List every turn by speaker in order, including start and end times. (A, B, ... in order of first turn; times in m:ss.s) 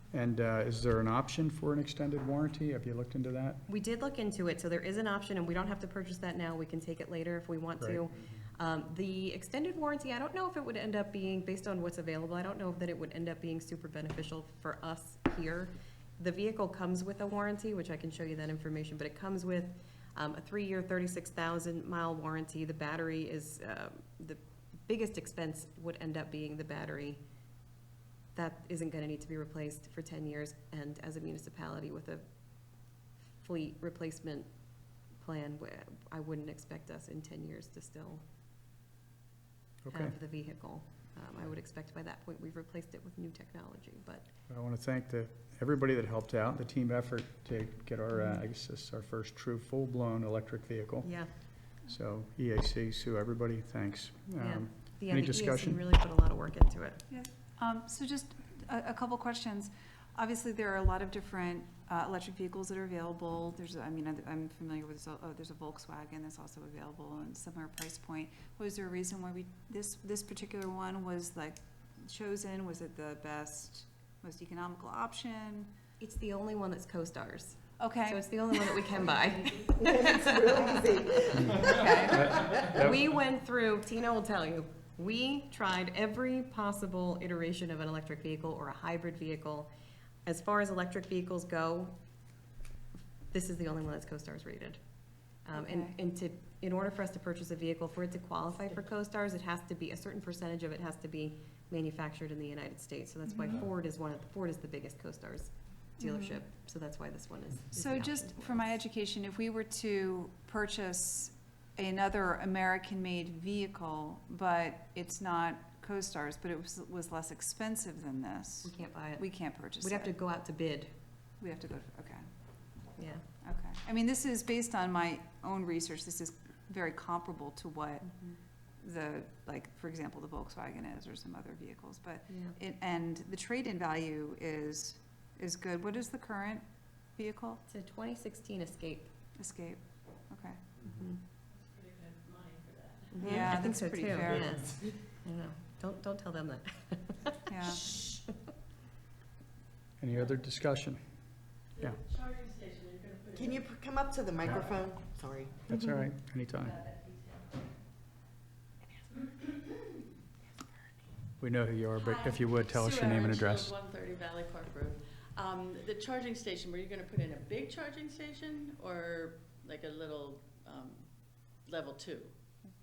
0:00.1-0:03.6 A
0:03.7-0:27.2 B
0:07.8-0:08.0 A
0:28.3-0:32.2 B
0:33.4-0:34.5 B
0:35.2-0:38.2 B
0:39.8-0:40.2 A
0:39.9-0:44.3 B
0:44.5-0:51.1 A
0:51.0-0:51.3 B
0:51.7-0:55.8 A
0:54.4-0:57.0 B
0:57.1-1:15.7 C
1:16.0-1:29.7 B
1:17.8-1:18.8 C
1:19.8-1:21.7 D
1:21.6-1:22.3 C
1:22.3-1:22.9 A
1:30.2-1:31.9 B
1:33.3-1:34.8 B
1:35.4-1:48.7 B
1:35.6-1:35.9 C
1:46.0-1:46.4 C
1:47.7-2:00.1 C
1:58.6-1:59.2 B
1:59.8-2:00.9 B
2:01.4-2:02.3 C
2:03.0-2:03.2 B
2:03.4-2:08.1 C
2:08.8-2:16.6 C
2:12.3-2:12.6 B
2:17.1-2:17.6 C
2:17.7-2:19.1 B
2:19.4-2:20.6 C
2:20.9-2:21.2 B
2:21.5-2:23.3 E
2:23.1-2:28.3 B
2:23.2-2:24.6 C
2:27.5-2:27.8 C
2:30.0-2:31.0 A
2:31.8-2:33.6 E
2:33.4-2:35.5 D
2:35.7-2:36.8 A
2:36.7-2:37.4 E
2:41.4-2:43.7 A
2:42.0-2:52.3 E